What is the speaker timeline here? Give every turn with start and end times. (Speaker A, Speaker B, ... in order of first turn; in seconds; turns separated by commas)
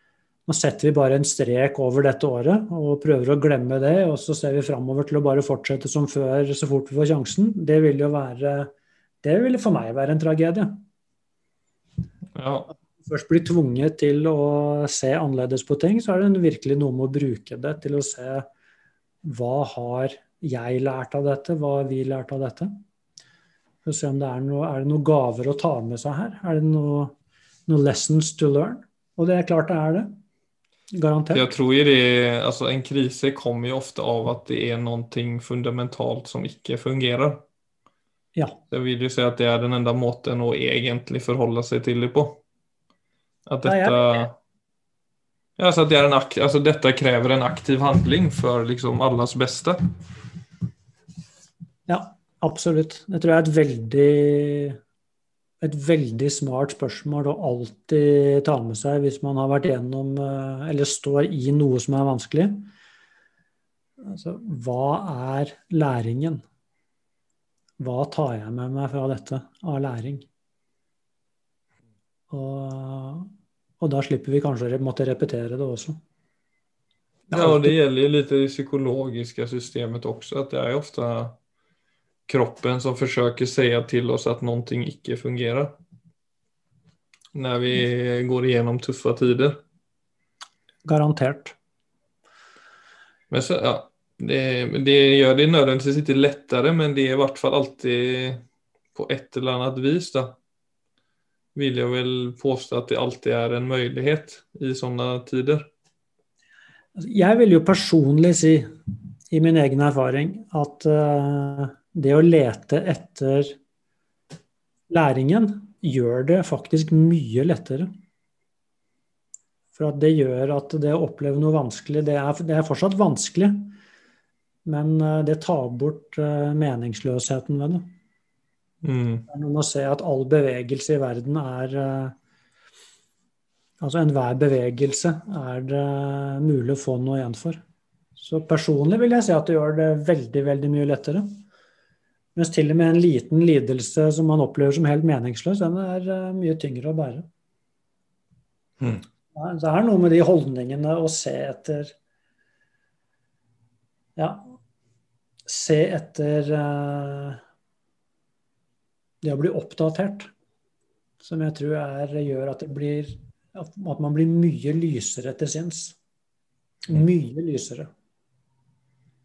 Speaker A: 0.5-8.7, Speaker A: 9.2-10.8, Speaker B: 12.3-12.7, Speaker A: 13.0-18.4, Speaker A: 19.2-22.7, Speaker A: 23.8-27.1, Speaker A: 27.7-30.1, Speaker A: 30.9-31.5, Speaker B: 31.3-37.4, Speaker B: 38.7-42.4, Speaker B: 43.5-44.3, Speaker A: 43.6-44.2, Speaker B: 45.6-49.8, Speaker A: 51.9-54.8, Speaker A: 55.6-62.7, Speaker A: 64.0-66.4, Speaker A: 67.8-70.3, Speaker A: 72.3-76.0, Speaker A: 77.3-77.8, Speaker B: 77.3-81.4, Speaker B: 82.3-85.7, Speaker B: 87.3-89.6, Speaker A: 90.8-91.5, Speaker B: 93.3-98.4, Speaker B: 98.9-100.3, Speaker B: 101.5-105.7, Speaker A: 107.0-108.7, Speaker A: 109.3-113.5, Speaker A: 114.9-117.9, Speaker A: 119.7-123.7, Speaker A: 124.6-127.9, Speaker B: 128.8-129.2, Speaker A: 129.3-132.1, Speaker A: 133.8-137.6, Speaker A: 138.2-141.4, Speaker A: 142.3-147.3, Speaker A: 149.3-151.9, Speaker A: 154.2-154.5, Speaker A: 155.4-157.4, Speaker A: 159.2-160.3, Speaker A: 161.2-165.9, Speaker A: 166.9-167.9